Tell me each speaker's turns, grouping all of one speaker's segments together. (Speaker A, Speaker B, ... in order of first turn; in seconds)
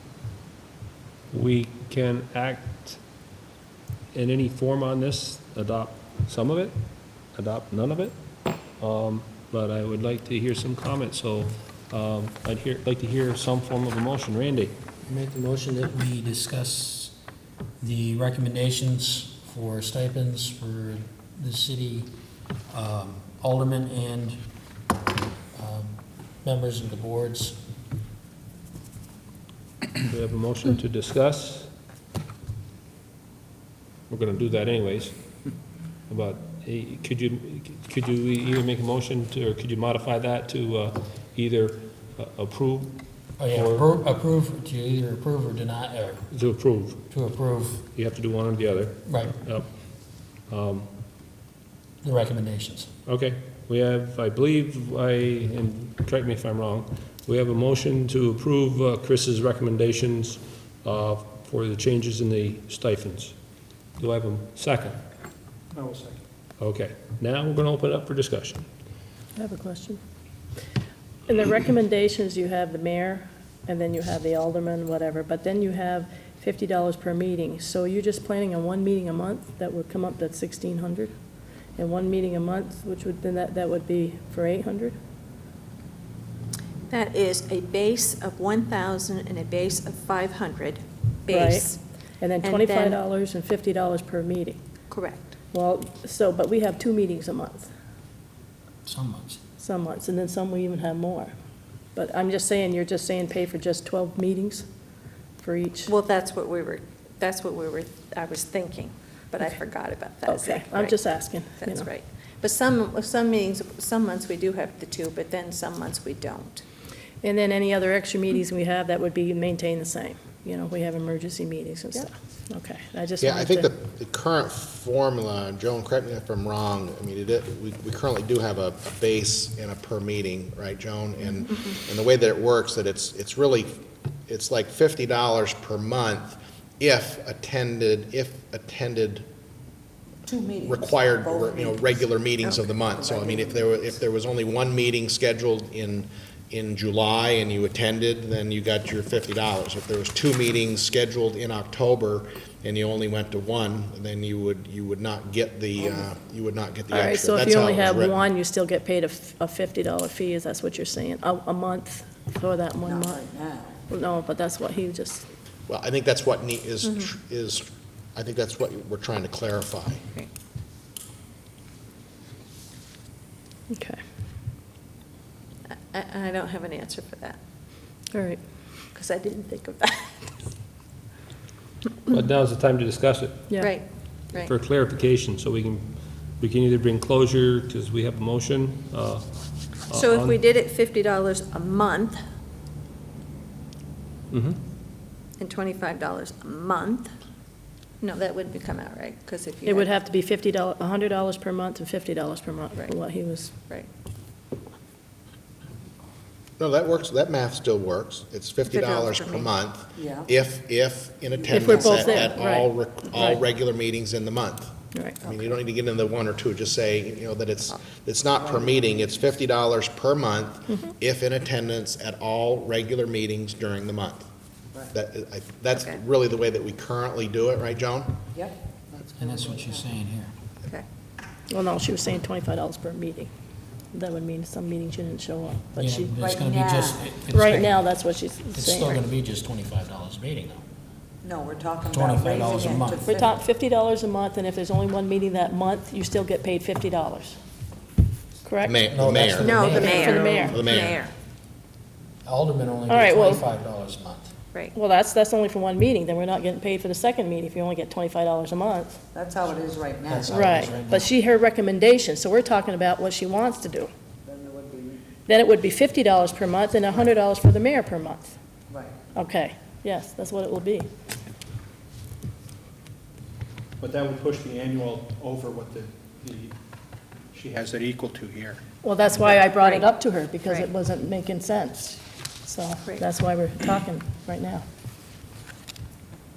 Speaker A: 1.3-3.0, 4.1-8.2, 8.8-14.8, 30.0-31.7, 34.1-35.5, 36.1-43.9, 46.3-47.0, 47.9-50.9, 53.0-63.4, 64.0-65.0, 66.6-68.7, 182.1-183.6, 184.4-190.4, 194.3-194.6
Speaker B: 15.1-17.2, 17.8-22.1, 22.7-24.4, 25.5-27.6, 43.4-46.3, 47.1-47.9, 49.0-49.4, 52.0-52.9, 98.8-99.4, 229.2-230.3, 235.8-237.8, 238.5-240.6, 241.8-243.2, 248.8-250.1, 252.2-254.3, 260.1-261.1
Speaker C: 65.7-66.2, 273.8-276.6, 277.3-278.6
Speaker D: 69.3-70.0, 71.3-81.1, 81.8-85.0, 91.3-94.6, 95.5-97.7, 99.6-101.3, 101.9-104.7, 105.4-105.9, 110.2-111.9, 117.2-123.7, 156.9-163.2, 163.9-165.2, 173.7-174.0, 178.1-178.4, 183.5-183.8, 199.6-203.5, 211.5-213.4, 214.9-215.2, 231.5-233.3, 233.9-236.1, 237.3-239.1, 243.0-247.4, 248.4-248.8, 249.9-250.6, 252.9-253.4, 254.7-259.0, 260.4-263.9, 265.3-268.3, 269.1-270.9, 278.8-284.6
Speaker E: 86.9-91.8, 92.4-93.0, 94.9-95.3, 105.8-111.0, 111.6-116.6, 131.5-131.7, 166.8-167.1, 175.7-177.4, 178.9-180.5, 183.6-184.5, 189.9-192.2, 195.4-197.1, 198.0-199.9, 208.7-209.5, 249.4-251.1, 279.5-279.9
Speaker F: 123.2-139.2, 140.6-158.2, 165.7-170.0, 206.6-224.2, 224.9-228.2, 248.6-251.0
Speaker G: 140.2-142.0, 142.8-143.8, 162.8-163.8, 209.9-210.3, 211.3-212.2, 218.3-219.2, 228.3-229.8, 236.1-237.1, 241.2-243.3, 249.8-250.5, 259.1-260.4, 264.2-265.1, 268.7-269.0